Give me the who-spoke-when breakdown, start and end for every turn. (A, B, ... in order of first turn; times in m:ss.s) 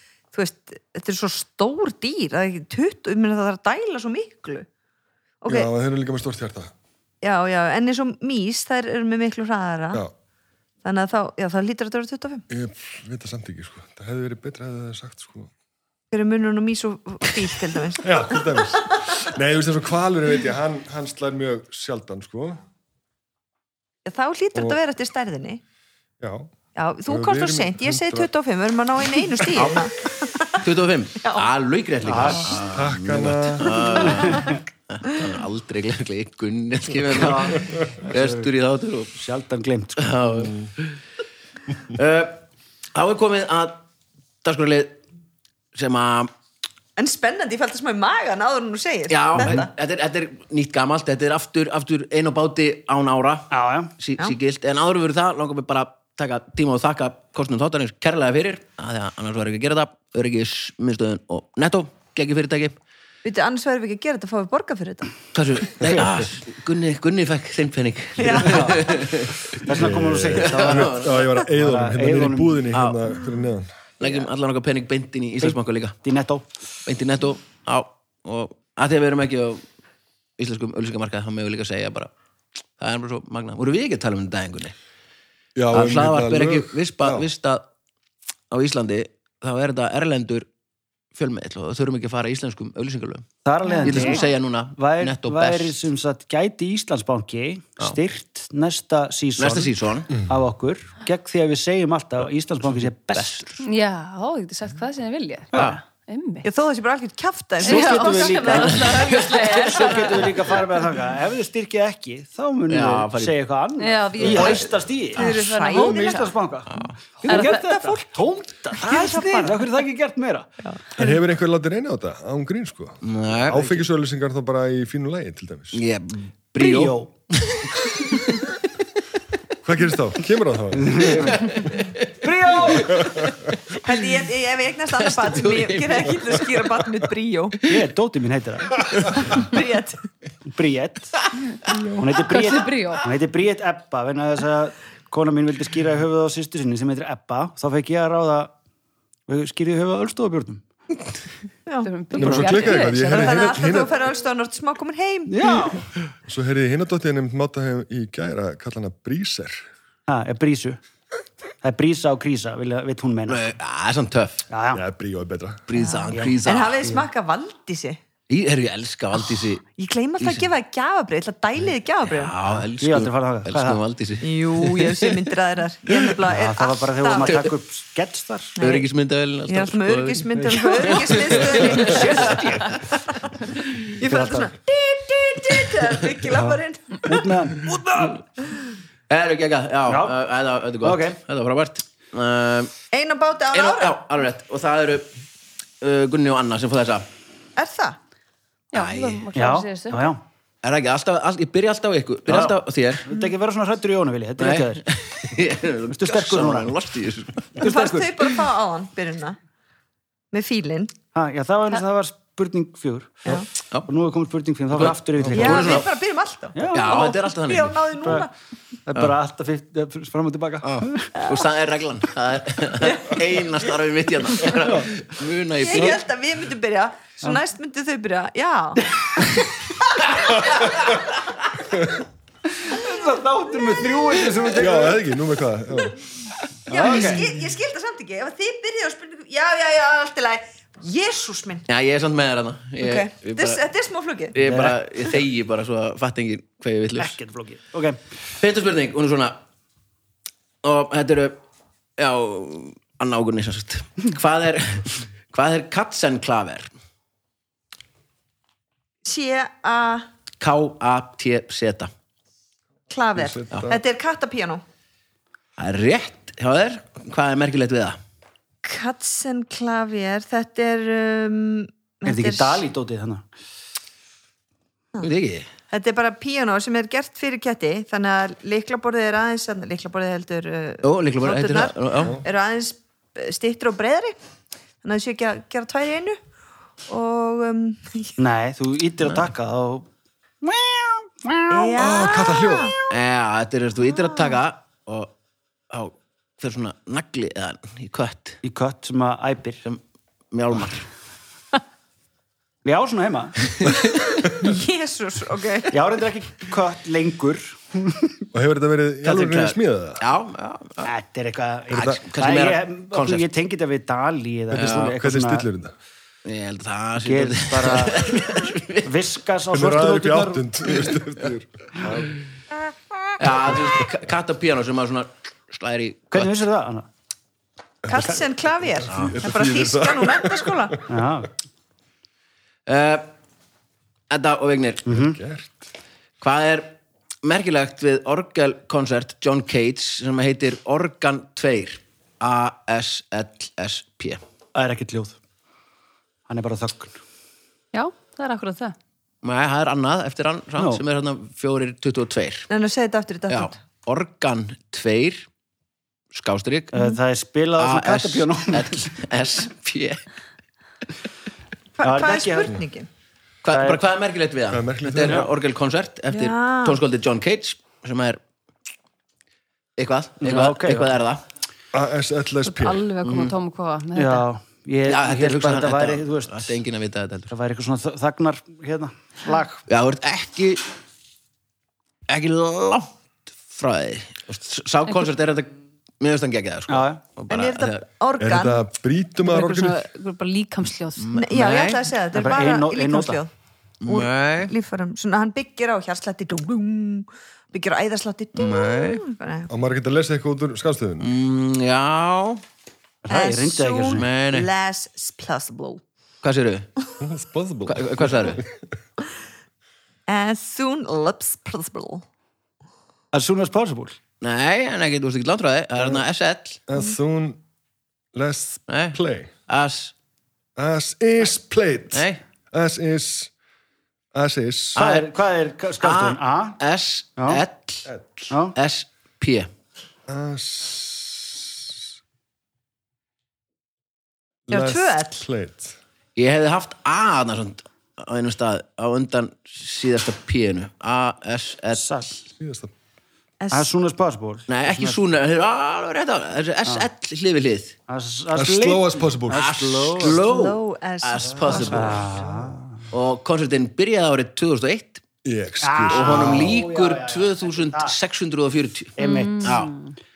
0:00.3-0:04.7 A
0:05.4-0:05.7 A
0:05.5-0:06.7 B
0:07.2-0:10.0 A
0:10.8-0:12.4 A
0:12.5-0:15.5 B
0:16.1-0:18.6 A
0:18.0-0:22.6 B
0:24.0-0:25.6 A
0:26.2-0:26.5 B
0:26.8-0:30.6 A
0:27.1-0:28.3 B
0:29.1-0:29.8 B
0:30.6-0:39.2 C
0:31.2-0:31.5 A
0:32.0-0:32.6 D
0:32.7-0:34.2 B
0:34.2-0:34.6 D
0:37.1-0:38.5 D
0:39.2-0:40.1 D
0:40.0-0:41.0 C
0:41.9-0:42.4 C
0:43.0-0:43.8 C
0:44.4-0:45.0 C
0:45.7-0:46.3 C
0:47.0-0:49.7 A
0:49.1-1:02.8 C
0:49.4-0:49.7 D
0:53.5-0:53.9 D
1:03.2-1:05.2 A
1:05.3-1:09.5 C
1:05.9-1:06.2 D
1:08.2-1:09.0 A
1:08.4-1:08.9 D
1:09.6-1:12.7 D
1:09.7-1:13.7 B
1:10.4-1:11.5 C
1:12.7-1:13.0 C
1:14.0-1:16.0 C
1:15.4-1:16.5 D
1:16.9-1:19.6 C
1:20.4-1:22.1 C
1:22.8-1:24.8 C
1:25.6-1:27.3 B
1:25.7-1:27.7 C
1:28.5-1:30.5 C
1:31.1-1:33.3 C
1:33.4-1:43.6 D
1:33.7-1:34.1 A
1:33.8-1:35.8 C
1:39.4-1:40.2 C
1:42.7-1:43.7 C
1:43.6-1:46.5 E
1:45.5-1:45.8 C
1:46.4-1:50.3 A
1:47.6-1:50.4 E
1:47.6-2:00.5 D
1:52.7-1:53.4 C
1:53.8-1:56.3 E
1:54.2-1:54.7 C
1:55.1-1:56.3 A
1:56.7-1:56.9 C
1:57.3-1:58.0 A
1:57.3-1:57.5 E
1:58.8-1:59.7 A
2:00.6-2:01.2 A
2:01.0-2:05.8 B
2:03.0-2:03.7 C
2:05.7-2:08.4 C
2:06.6-2:07.1 D
2:09.6-2:11.6 B
2:10.7-2:11.4 D
2:11.2-2:13.9 C
2:12.2-2:13.3 D
2:12.9-2:13.3 B
2:13.8-2:17.6 A
2:15.0-2:16.7 C
2:17.6-2:19.4 D
2:19.3-2:20.0 A
2:20.5-2:21.2 D
2:22.0-2:28.5 D
2:22.0-2:23.1 E
2:29.3-2:30.6 D
2:31.7-2:35.8 A
2:31.8-2:33.6 E
2:32.2-2:33.9 B
2:35.3-2:35.8 D
2:36.2-2:39.6 B
2:40.1-2:40.8 D
2:41.6-2:43.5 D
2:43.3-2:44.4 C
2:44.5-2:44.8 D
2:44.7-2:45.7 B
2:45.7-2:46.8 C
2:45.8-2:48.0 A
2:46.1-2:47.1 D
2:48.3-2:49.6 C
2:49.8-2:52.4 A
2:50.2-2:50.5 C
2:52.1-2:55.1 C
2:52.8-2:53.8 D
2:54.2-2:57.5 A
2:56.3-2:58.6 D
2:58.6-2:58.9 A
2:58.6-3:02.8 C
2:59.5-3:02.5 A
3:00.4-3:02.9 D
3:03.2-3:07.3 A
3:04.0-3:04.5 D
3:06.3-3:08.2 D
3:09.1-3:12.7 C
3:09.9-3:10.2 D
3:10.8-3:11.2 D
3:12.9-3:14.0 A
3:13.5-3:15.1 C
3:15.8-3:17.1 C
3:17.6-3:18.0 A
3:18.7-3:20.1 E
3:18.7-3:19.3 C
3:19.3-3:20.2 D
3:20.6-3:23.1 C
3:22.3-3:24.8 D
3:24.4-3:27.6 C
3:25.9-3:26.8 D
3:27.6-3:28.2 D
3:27.6-3:29.4 A
3:30.3-3:31.0 A
3:31.1-3:35.9 D
3:34.7-3:35.9 C
3:35.2-3:35.4 B
3:35.3-3:38.3 A
3:36.5-3:37.1 D
3:36.7-3:37.9 C
3:38.0-3:38.3 D
3:38.9-3:41.2 D
3:40.6-3:46.0 C
3:42.8-3:43.2 A
3:45.6-3:50.9 A
3:52.6-3:55.0 D
3:54.5-3:56.0 B
3:56.7-3:57.3 D
3:56.7-4:01.7 A
4:01.7-4:03.6 C
4:02.8-4:04.4 A
4:04.3-4:07.2 C
4:04.4-4:04.8 D
4:07.0-4:08.0 D
4:08.4-4:09.4 C
4:10.6-4:11.4 C
4:12.0-4:16.7 C
4:19.0-4:20.1 A
4:20.4-4:21.9 C
4:22.9-4:24.6 A
4:23.2-4:23.8 B
4:25.6-4:28.0 C
4:28.6-4:32.6 A
4:32.0-4:33.2 D
4:35.0-4:35.5 C
4:35.7-4:44.2 A
4:40.8-4:42.2 C
4:44.8-4:46.2 A
4:46.9-4:48.2 A
4:48.2-4:49.9 D
4:49.0-4:49.3 C
4:50.4-4:51.9 D
4:51.5-4:52.9 A
4:51.8-4:52.8 B
4:52.9-4:55.1 C
4:54.1-4:54.4 A
4:55.7-4:58.4 C
4:58.4-4:59.6 D
5:00.3-5:00.9 C
5:02.6-5:03.6 D
5:03.6-5:04.1 C
5:04.3-5:05.8 A
5:05.7-5:08.3 D
5:08.3-5:10.0 B
5:09.0-5:10.9 C
5:10.8-5:15.5 D
5:11.7-5:12.0 B
5:11.8-5:13.3 C
5:14.5-5:15.7 B
5:16.2-5:18.9 C
5:17.0-5:18.3 D
5:18.8-5:20.5 D
5:19.5-5:22.1 B
5:23.2-5:26.3 C
5:26.1-5:26.9 D
5:27.8-5:28.1 B
5:27.9-5:30.8 A
5:28.7-5:31.0 B
5:28.9-5:29.2 C
5:30.9-5:31.3 D
5:32.7-5:33.1 C
5:34.1-5:34.9 C
5:34.9-5:35.2 D
5:34.9-5:35.7 B
5:36.2-5:44.2 C
5:44.6-5:45.2 D
5:46.3-5:47.0 D
5:47.7-5:48.8 E
5:49.2-5:52.5 C
5:50.6-5:50.8 D
5:52.5-5:53.6 A
5:53.3-5:55.3 C
5:56.1-5:56.7 C
5:56.7-5:58.9 D
5:57.6-6:00.0 C
6:01.8-6:02.9 A
6:01.8-6:02.6 D
6:03.4-6:08.2 C
6:03.5-6:03.8 D
6:04.5-6:05.3 B
6:06.1-6:06.8 A
6:09.8-6:11.2 C
6:10.2-6:10.9 D
6:11.7-6:12.9 B
6:12.5-6:14.3 E
6:13.0-6:13.4 C
6:14.0-6:16.6 D
6:14.9-6:17.3 C
6:17.3-6:19.6 D
6:19.7-6:20.7 C
6:22.1-6:22.9 C
6:23.5-6:27.8 C
6:26.7-6:27.1 D
6:27.3-6:28.6 A
6:28.2-6:29.8 B
6:29.2-6:31.1 E
6:31.0-6:31.9 C
6:31.2-6:33.3 A
6:32.1-6:33.2 D
6:33.8-6:34.5 C
6:33.9-6:39.5 A
6:38.4-6:39.0 C
6:39.5-6:41.1 B
6:41.0-6:42.4 C
6:43.0-6:44.1 D
6:43.1-6:45.8 A
6:43.9-6:44.5 C
6:46.2-6:46.7 C
6:47.0-6:48.5 B
6:47.7-6:48.4 C
6:50.1-6:52.0 A
6:53.1-6:54.0 D
6:54.2-6:56.6 C
6:56.7-6:57.4 B
6:58.1-6:59.3 B
6:58.7-6:59.9 C
7:00.6-7:03.3 B
7:01.9-7:02.2 C
7:04.1-7:04.8 B
7:04.8-7:05.1 C
7:04.8-7:06.6 D
7:05.8-7:07.9 C
7:07.2-7:07.4 D
7:07.9-7:08.3 B
7:08.3-7:08.6 D
7:08.5-7:09.5 C
7:10.1-7:11.8 B
7:14.5-7:15.8 B
7:14.5-7:15.2 A
7:16.2-7:22.0 C
7:21.8-7:22.2 D
7:22.4-7:22.7 B
7:23.4-7:23.7 A
7:23.5-7:25.0 D
7:24.5-7:27.8 C
7:27.9-7:30.2 D
7:28.3-7:30.1 B
7:29.3-7:32.1 C
7:30.1-7:32.0 A
7:31.3-7:32.6 B
7:31.6-7:32.8 D
7:32.9-7:35.0 C
7:35.2-7:36.6 B
7:35.6-7:38.0 D
7:35.9-7:39.7 C
7:39.0-7:39.7 D
7:39.0-7:39.9 E